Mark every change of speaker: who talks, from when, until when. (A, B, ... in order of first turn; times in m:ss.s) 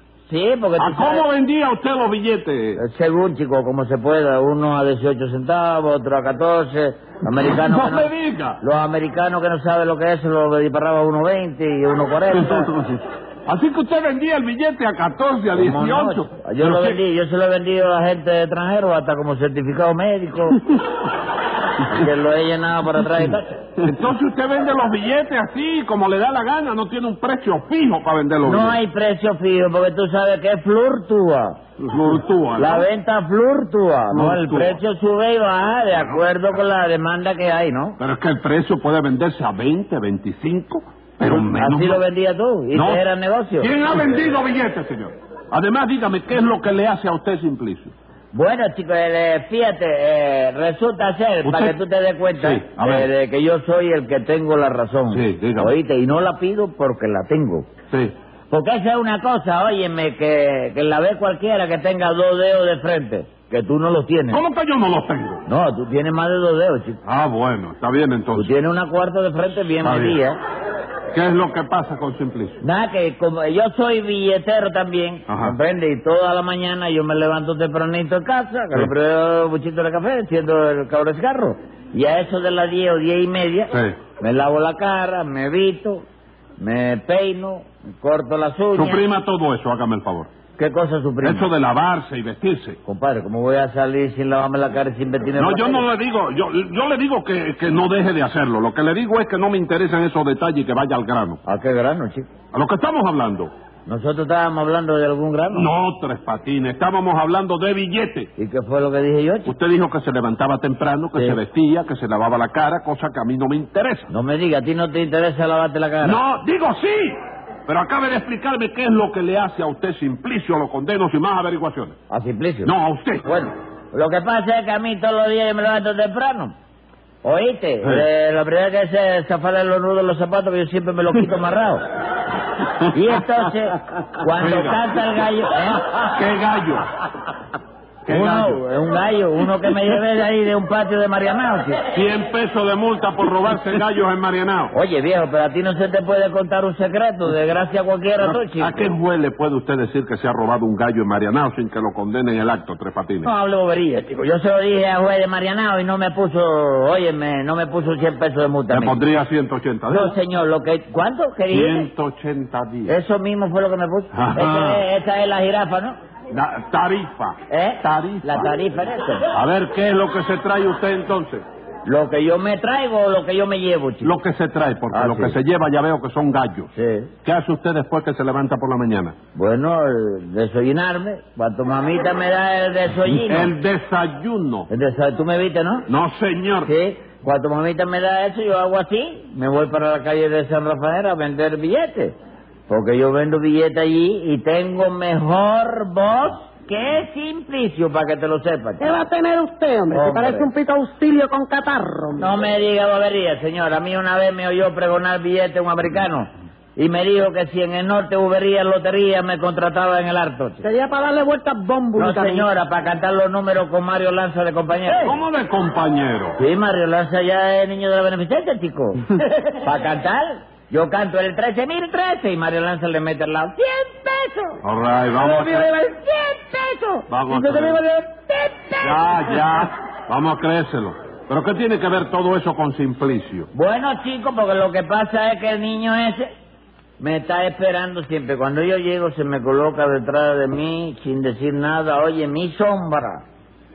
0:00.3-0:01.2 A
0:00.8-0:02.8 B
0:02.8-0:12.7 A
0:07.4-0:08.6 B
0:12.4-0:17.0 B
0:15.6-0:20.6 A
0:21.8-0:23.6 A
0:23.8-0:28.8 B
0:28.4-0:31.6 A
0:31.8-0:32.9 B
0:32.6-0:38.0 A
0:34.1-0:34.8 B
0:35.9-0:36.2 B
0:38.0-0:42.0 B
0:41.3-0:43.7 A
0:42.7-0:43.0 B
0:43.6-0:47.9 B
0:48.3-0:57.7 A
0:51.4-0:51.8 B
0:52.4-0:53.1 B
0:55.1-0:55.7 B
0:58.5-1:04.4 A
1:04.3-1:05.4 B
1:05.4-1:07.0 A
1:07.0-1:08.5 B
1:08.4-1:10.4 A
1:09.8-1:10.2 B
1:11.1-1:12.6 B
1:12.6-1:26.0 A
1:15.3-1:15.5 B
1:23.7-1:24.0 B
1:26.6-1:29.0 A
1:28.8-1:30.3 B
1:30.6-1:31.5 A
1:31.2-1:32.8 B
1:32.9-1:35.8 A
1:35.4-1:41.4 B
1:41.4-1:42.3 A
1:42.5-1:43.5 B
1:43.9-1:45.7 A
1:45.5-1:48.3 B
1:48.4-1:49.5 A
1:49.5-1:54.1 B
1:54.1-1:56.2 A
1:56.0-2:01.9 B
2:02.1-2:02.7 A
2:02.6-2:03.3 B
2:03.2-2:06.6 A
2:07.2-2:11.8 A
2:12.9-2:15.8 A
2:14.4-2:14.8 B
2:16.0-2:16.8 B
2:18.0-2:18.6 B
2:18.1-2:21.8 A
2:21.9-2:24.7 B
2:24.7-2:28.9 A
2:28.2-2:33.3 B
2:33.2-2:39.0 A
2:38.7-2:40.2 B
2:39.9-2:41.9 A
2:41.5-2:42.9 B
2:42.9-2:46.0 A
2:44.1-2:44.8 B
2:46.3-2:48.5 B
2:47.5-2:49.3 A
2:49.3-2:51.4 B
2:51.8-2:54.1 A
2:54.0-2:56.7 B
2:54.9-2:55.4 A
2:56.8-2:57.1 A
2:57.2-2:59.1 B
2:59.4-3:03.5 A
3:03.1-3:04.7 B
3:04.7-3:05.9 A
3:05.9-3:06.7 B
3:06.6-3:12.1 A
3:12.7-3:18.9 A
3:18.8-3:22.3 C
3:19.9-3:20.5 A
3:22.2-3:30.6 A
3:30.6-3:32.4 C
3:32.0-3:35.1 A
3:35.0-3:36.4 B
3:36.4-3:44.6 A
3:44.6-3:45.7 B
3:45.1-3:49.4 A
3:47.1-3:47.8 B
3:48.8-3:53.5 B
3:53.5-3:56.3 A
3:57.0-4:03.2 A